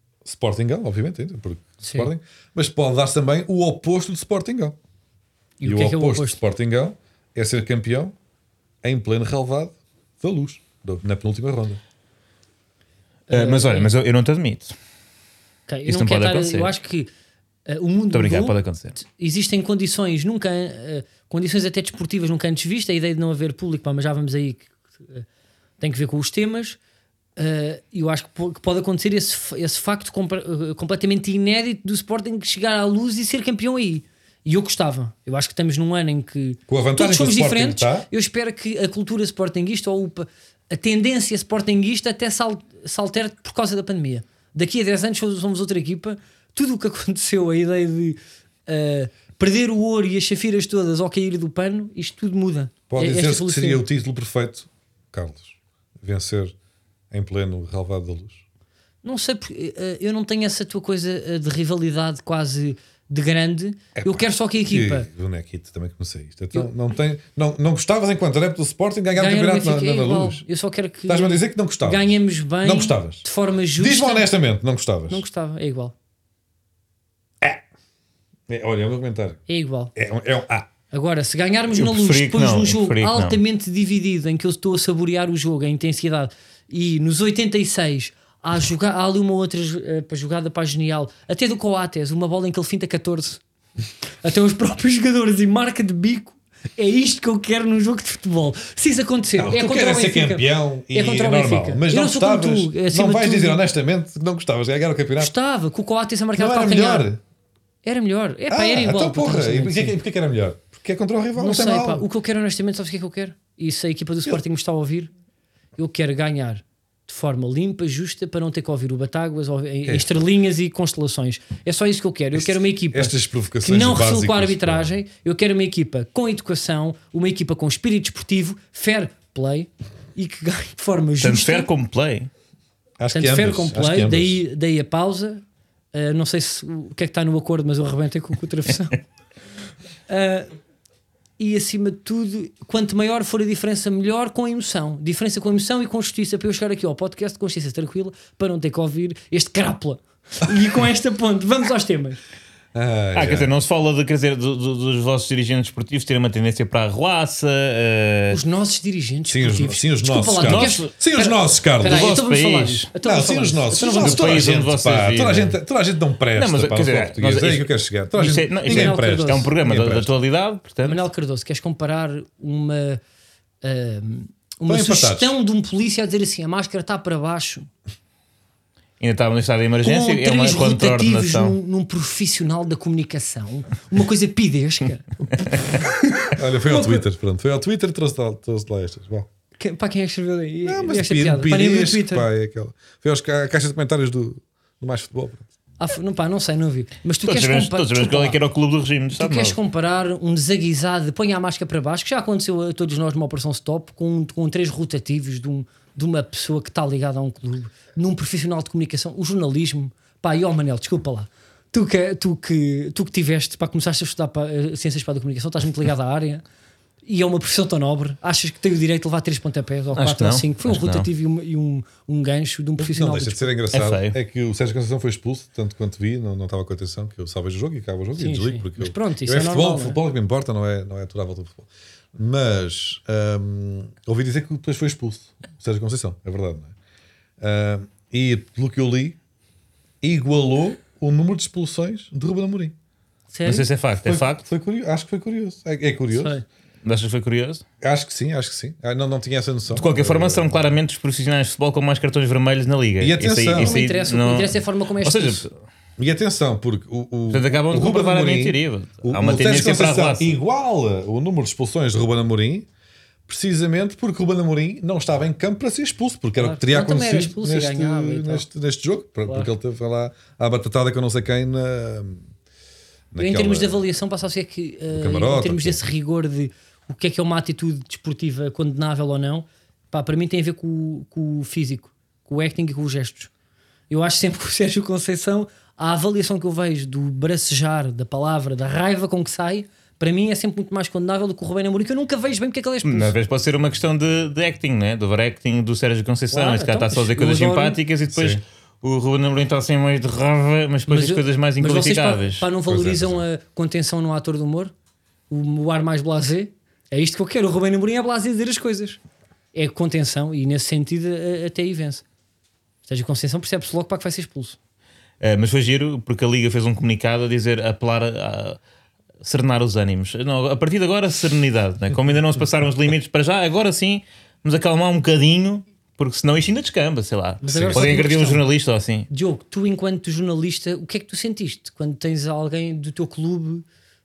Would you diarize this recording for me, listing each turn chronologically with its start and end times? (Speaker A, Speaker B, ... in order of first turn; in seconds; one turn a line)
Speaker A: 0.2-4.8
Speaker B: 1.8-2.1
Speaker B: 5.6-6.4
Speaker A: 5.6-8.1
Speaker A: 8.8-11.8
Speaker B: 13.3-13.9
Speaker C: 13.3-14.8
Speaker B: 15.7-17.1
Speaker C: 15.9-16.7
Speaker B: 17.7-25.2
Speaker C: 18.1-19.0
Speaker B: 25.8-26.8
Speaker B: 27.4-53.9
Speaker A: 36.7-38.1
Speaker A: 52.9-56.5
Speaker A: 57.1-58.4
Speaker B: 59.0-65.1
Speaker A: 64.0-70.4
Speaker B: 69.2-74.3
Speaker A: 71.1-73.2
Speaker A: 73.8-75.2
Speaker B: 75.1-75.9
Speaker A: 78.5-79.4
Speaker B: 79.5-79.9
Speaker A: 80.0-80.7
Speaker B: 80.9-93.4
Speaker C: 81.7-83.4
Speaker B: 94.2-103.6
Speaker A: 99.4-105.3
Speaker B: 105.2-107.1
Speaker A: 106.4-107.2
Speaker B: 107.8-110.0
Speaker A: 108.5-112.1
Speaker B: 111.4-115.1
Speaker B: 115.8-131.7
Speaker A: 119.8-120.1
Speaker A: 122.3-124.9
Speaker C: 131.2-132.3
Speaker A: 133.0-134.4
Speaker B: 133.1-139.0
Speaker B: 140.1-140.5
Speaker B: 141.4-152.2
Speaker A: 152.7-153.5
Speaker C: 153.2-158.4
Speaker B: 158.3-164.4
Speaker A: 159.3-162.2
Speaker C: 160.4-160.9
Speaker C: 161.8-162.9
Speaker A: 163.0-170.1
Speaker C: 163.8-165.6
Speaker C: 166.3-171.0
Speaker B: 168.6-169.5
Speaker B: 170.9-173.0
Speaker B: 173.6-177.7
Speaker A: 174.7-175.3
Speaker C: 179.0-181.6
Speaker B: 179.8-187.0
Speaker A: 186.3-189.3
Speaker B: 189.6-192.3
Speaker A: 190.7-195.4
Speaker B: 195.8-198.4
Speaker C: 197.2-199.6
Speaker B: 199.2-216.4
Speaker B: 217.1-223.5
Speaker C: 219.9-221.1
Speaker A: 222.8-236.7
Speaker C: 223.7-224.2
Speaker B: 228.2-230.0
Speaker A: 237.4-239.2
Speaker A: 240.0-242.7
Speaker B: 243.3-243.7
Speaker C: 243.4-244.4
Speaker A: 244.0-246.4
Speaker B: 246.1-246.4
Speaker C: 246.8-247.6
Speaker A: 247.8-250.6
Speaker C: 249.7-255.5
Speaker A: 253.0-253.8
Speaker B: 253.6-255.4
Speaker A: 256.0-262.7
Speaker C: 257.3-260.3
Speaker A: 263.3-272.2
Speaker B: 266.4-268.5
Speaker A: 273.1-273.8
Speaker B: 273.2-283.3
Speaker A: 274.9-275.8
Speaker B: 283.9-293.1
Speaker C: 292.8-302.5
Speaker B: 296.3-297.8
Speaker A: 298.1-298.4
Speaker B: 300.9-304.7
Speaker A: 302.7-303.2
Speaker B: 305.3-309.0
Speaker B: 309.5-312.0
Speaker B: 312.9-314.6
Speaker C: 315.2-318.6
Speaker C: 319.2-329.1
Speaker B: 327.4-328.4
Speaker A: 327.5-327.9
Speaker B: 329.1-333.6